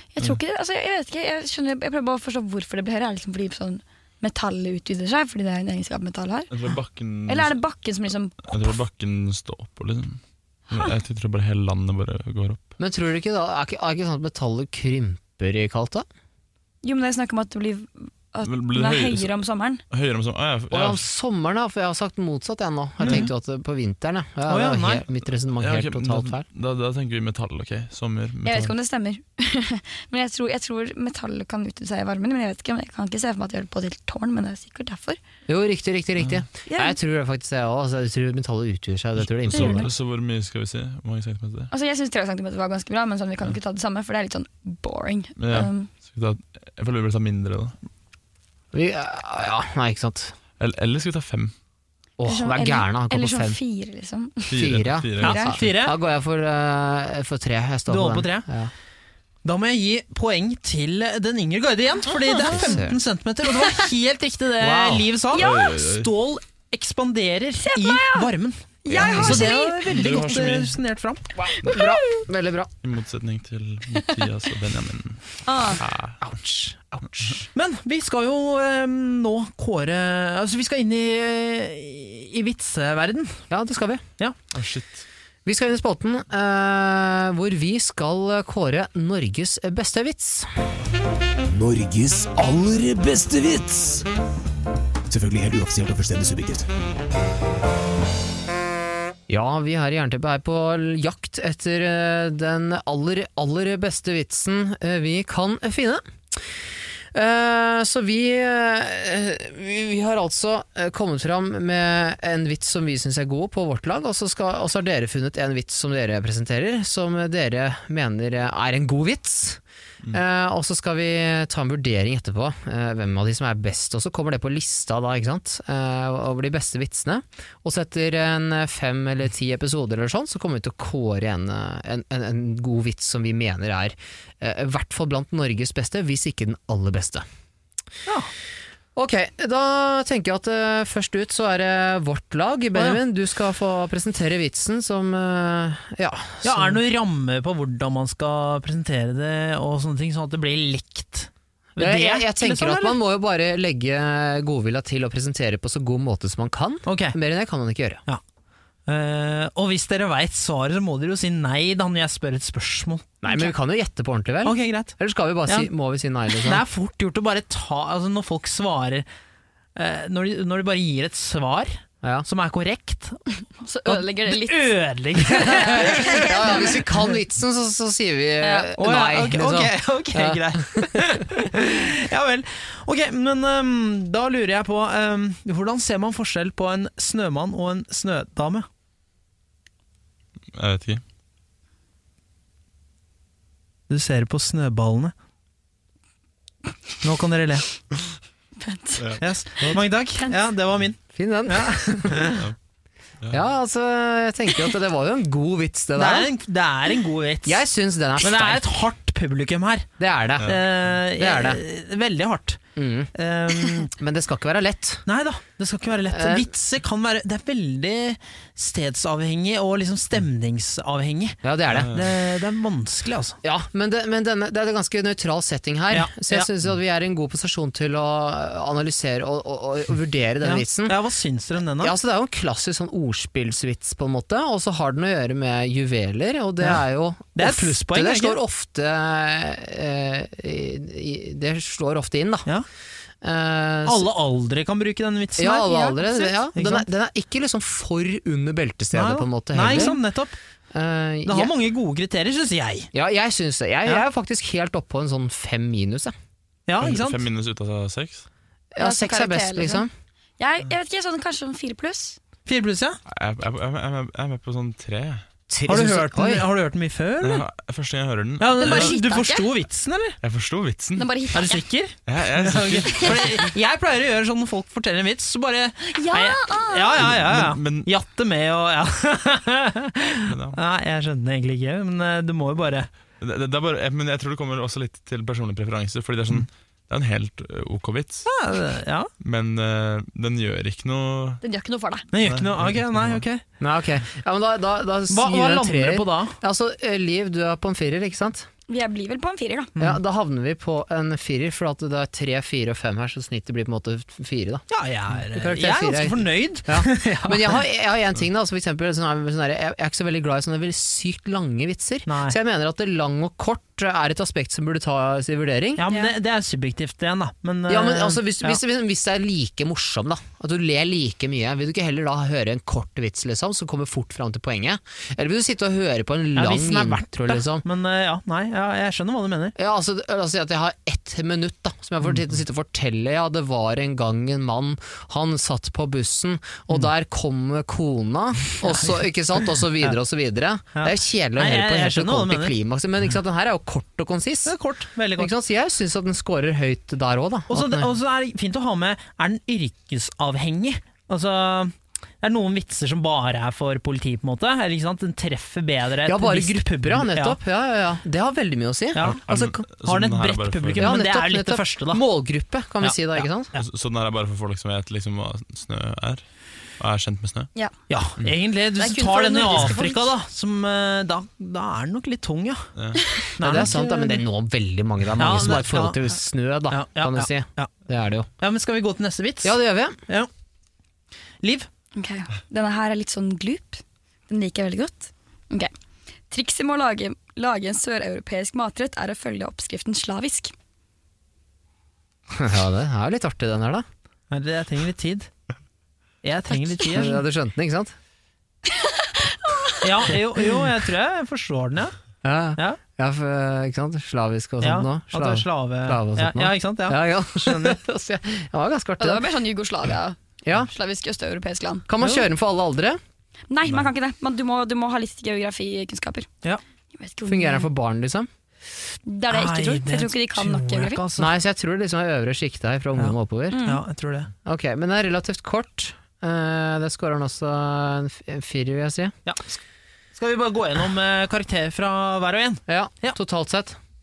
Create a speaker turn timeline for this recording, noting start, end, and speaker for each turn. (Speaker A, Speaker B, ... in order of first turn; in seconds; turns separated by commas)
Speaker A: 0.1-6.5, Speaker B: 6.5-7.6, Speaker A: 7.3-8.6, Speaker B: 8.4-12.6, Speaker C: 12.8-16.1, Speaker A: 16.8-19.8, Speaker B: 18.4-19.3, Speaker B: 19.9-21.0, Speaker C: 20.7-26.4, Speaker D: 23.0-23.3, Speaker D: 24.5-25.0, Speaker B: 25.6-28.7, Speaker A: 28.4-35.2, Speaker C: 35.5-39.9, Speaker A: 36.7-36.9, Speaker B: 39.4-41.7, Speaker A: 39.5-39.9, Speaker A: 41.7-45.9, Speaker B: 45.4-47.7, Speaker C: 48.7-50.3, Speaker B: 50.6-51.5, Speaker C: 52.2-53.6, Speaker A: 52.2-54.6, Speaker B: 54.5-55.6, Speaker C: 54.5-58.7, Speaker D: 55.2-56.0, Speaker A: 55.2-55.6, Speaker D: 57.9-58.5, Speaker D: 59.4-71.3, Speaker C: 62.4-63.0, Speaker C: 64.6-65.1, Speaker A: 65.3-65.8, Speaker B: 65.3-66.1, Speaker A: 67.6-68.3, Speaker A: 68.8-69.8, Speaker B: 68.9-70.8, Speaker C: 71.4-72.7, Speaker A: 71.7-72.0, Speaker B: 72.8-76.2, Speaker A: 75.5-75.8, Speaker C: 76.2-77.5, Speaker D: 77.5-83.4, Speaker C: 83.5-84.0, Speaker B: 84.5-85.0, Speaker C: 85.5-90.5, Speaker E: 91.5-94.0, Speaker E: 95.1-96.7, Speaker C: 99.3-106.5, Speaker C: 107.1-119.6, Speaker C: 120.1-137.2, Speaker D: 138.1-138.3, Speaker C: 138.9-146.8, Speaker D: 142.7-143.0, Speaker D: 146.4-153.0, Speaker C: 151.8-158.0, Speaker D: 156.8-157.2, Speaker D: 158.9-163.1, Speaker C: 163.2-166.6, Speaker D: 164.4-164.9, Speaker D: 166.4-169.1, Speaker D: 169.8-173.2, Speaker A: 173.6-174.8, Speaker D: 173.9-176.5, Speaker A: 175.3-176.9, Speaker C: 175.5-181.2, Speaker A: 178.4-178.7, Speaker D: 178.8-188.7, Speaker B: 190.5-191.0, Speaker D: 193.9-195.1, Speaker D: 197.0-197.7, Speaker A: 198.6-199.2, Speaker B: 199.0-199.8, Speaker D: 199.2-202.3, Speaker C: 201.1-202.4, Speaker C: 203.3-206.3, Speaker D: 205.9-207.6, Speaker C: 207.4-208.7, Speaker D: 208.2-209.9, Speaker C: 210.0-210.5, Speaker B: 210.4-210.7, Speaker D: 210.4-212.6, Speaker C: 211.2-211.6, Speaker C: 212.8-213.1, Speaker D: 213.1-213.9, Speaker C: 213.9-215.0, Speaker D: 215.1-223.4, Speaker C: 216.1-216.5, Speaker C: 221.4-222.0, Speaker B: 221.7-222.1, Speaker C: 223.4-231.0, Speaker D: 225.9-226.5, Speaker D: 230.4-231.9, Speaker C: 231.8-242.5, Speaker D: 237.3-238.4, Speaker C: 243.2-244.1, Speaker D: 243.8-246.8, Speaker C: 245.4-250.0, Speaker D: 248.9-250.3, Speaker A: 249.7-249.9, Speaker C: 250.7-251.5, Speaker D: 251.2-252.9, Speaker C: 252.9-256.1, Speaker D: 256.7-257.2, Speaker B: 256.8-258.2, Speaker C: 258.7-259.9, Speaker A: 258.8-259.9, Speaker A: 260.4-262.2, Speaker D: 262.4-263.0, Speaker B: 263.1-265.2, Speaker C: 265.5-266.4, Speaker D: 265.7-267.4, Speaker B: 267.2-268.9, Speaker D: 268.4-270.2, Speaker A: 268.6-269.5, Speaker B: 270.2-271.1, Speaker A: 270.9-271.6, Speaker D: 271.3-282.9, Speaker B: 272.1-273.5, Speaker A: 275.9-277.0, Speaker B: 277.0-277.9, Speaker B: 280.2-280.6, Speaker B: 283.2-288.3, Speaker D: 288.2-289.1, Speaker B: 289.2-291.4, Speaker A: 291.4-292.1, Speaker D: 292.1-293.4, Speaker B: 292.2-293.2, Speaker C: 293.6-298.5, Speaker D: 295.1-296.4, Speaker A: 298.7-299.7, Speaker C: 299.8-315.8, Speaker D: 304.7-307.6, Speaker D: 312.1-312.4, Speaker D: 315.8-318.6, Speaker C: 317.7-327.6, Speaker D: 326.3-329.5, Speaker C: 329.6-344.6, Speaker D: 338.6-339.9, Speaker D: 340.7-342.5, Speaker D: 344.4-345.3, Speaker C: 345.2-347.9, Speaker D: 347.5-357.4, Speaker C: 356.1-359.6, Speaker D: 358.9-362.0, Speaker B: 359.0-360.9, Speaker C: 360.8-363.5, Speaker D: 362.8-363.6, Speaker B: 363.6-366.2, Speaker B: 366.8-367.5, Speaker D: 367.9-372.7, Speaker A: 368.8-370.1, Speaker B: 372.8-373.1, Speaker D: 373.4-374.2, Speaker C: 373.4-378.3, Speaker D: 375.2-376.0, Speaker D: 376.7-377.7, Speaker D: 378.4-379.6, Speaker C: 379.4-380.0, Speaker D: 381.4-381.7, Speaker A: 381.9-385.7, Speaker A: 386.3-390.5, Speaker C: 392.3-393.8, Speaker D: 394.3-395.3, Speaker D: 396.2-397.2, Speaker C: 396.8-397.9, Speaker A: 398.7-399.8, Speaker D: 399.8-401.9, Speaker C: 402.2-409.2, Speaker D: 404.6-407.8, Speaker A: 409.0-411.9, Speaker C: 410.4-410.7, Speaker C: 411.9-413.0, Speaker D: 412.0-412.2, Speaker A: 413.5-416.3, Speaker A: 416.9-417.7, Speaker C: 417.2-418.3, Speaker A: 419.1-421.0, Speaker D: 419.3-421.3, Speaker C: 421.2-423.6, Speaker D: 423.0-424.3, Speaker A: 423.5-423.8, Speaker C: 424.4-429.1, Speaker D: 429.2-429.6, Speaker D: 430.1-433.2, Speaker C: 432.7-433.8